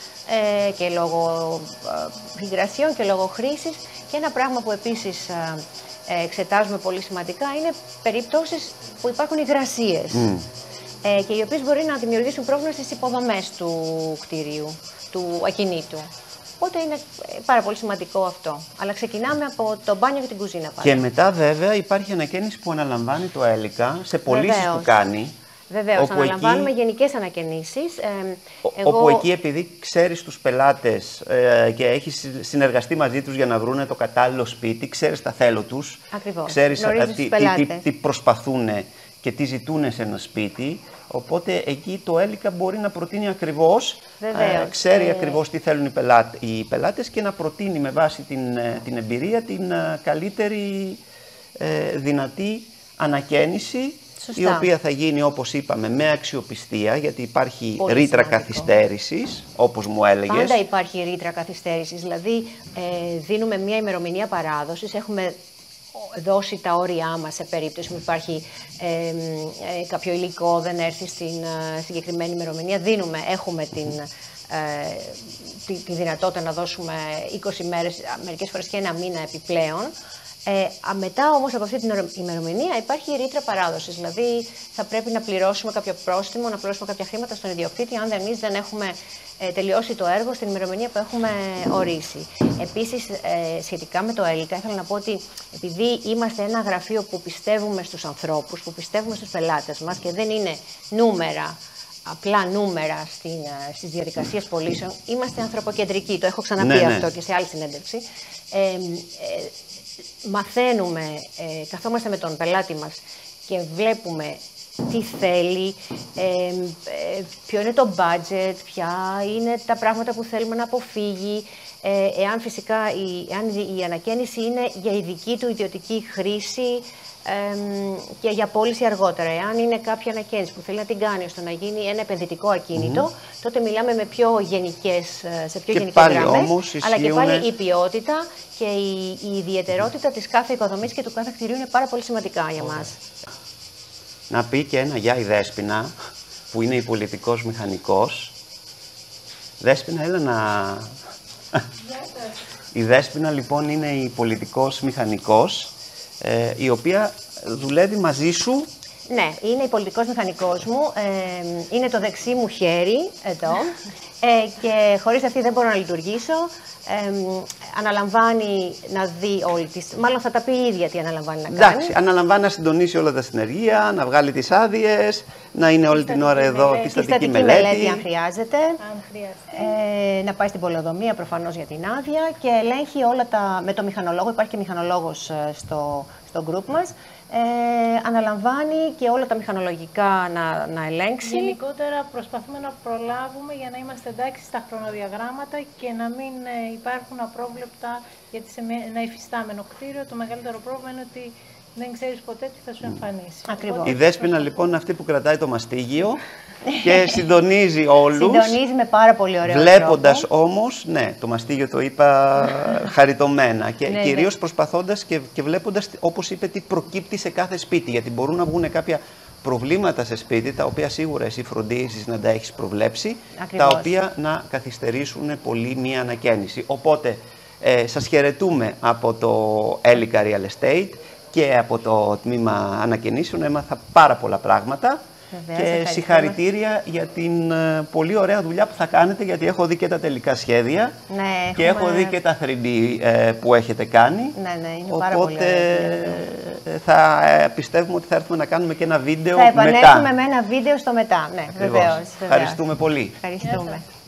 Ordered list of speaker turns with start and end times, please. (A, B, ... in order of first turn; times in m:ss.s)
0:00.3-0:10.3 A
0:10.1-0:10.4 B
0:11.0-0:16.1 A
0:16.6-0:21.0 A
0:20.8-0:25.4 B
0:24.3-0:25.1 A
0:25.7-0:29.3 A
0:25.9-0:26.7 B
0:28.6-0:51.0 B
0:36.1-0:37.9 A
0:44.2-0:45.4 A
0:51.6-1:00.6 B
0:54.2-0:54.7 A
0:57.8-0:58.7 A
1:00.3-1:05.4 A
1:06.0-1:19.9 A
1:20.5-1:49.5 A
1:46.6-1:47.1 B
1:50.2-2:23.0 A
2:12.8-2:13.1 B
2:15.7-2:17.5 B
2:24.3-2:25.9 B
2:26.5-2:28.4 B
2:29.6-2:31.0 B
2:32.7-2:38.7 B
2:39.1-2:52.0 A
2:51.5-2:58.0 B
2:55.9-2:57.0 C
2:56.8-2:58.8 A
2:58.8-2:59.7 C
2:59.5-3:11.6 A
3:11.2-3:24.5 C
3:23.5-3:24.0 A
3:23.8-3:26.2 B
3:26.8-3:28.6 B
3:28.1-3:30.3 A
3:29.4-3:55.0 B
3:33.8-3:34.3 A
3:43.4-3:43.9 A
3:55.3-3:56.4 A
3:55.6-4:01.0 B
4:01.1-4:02.2 A
4:01.6-4:04.4 B
4:04.4-4:06.2 A
4:04.9-4:10.1 B
4:09.3-4:12.6 A
4:11.6-4:13.2 B
4:13.2-4:13.9 A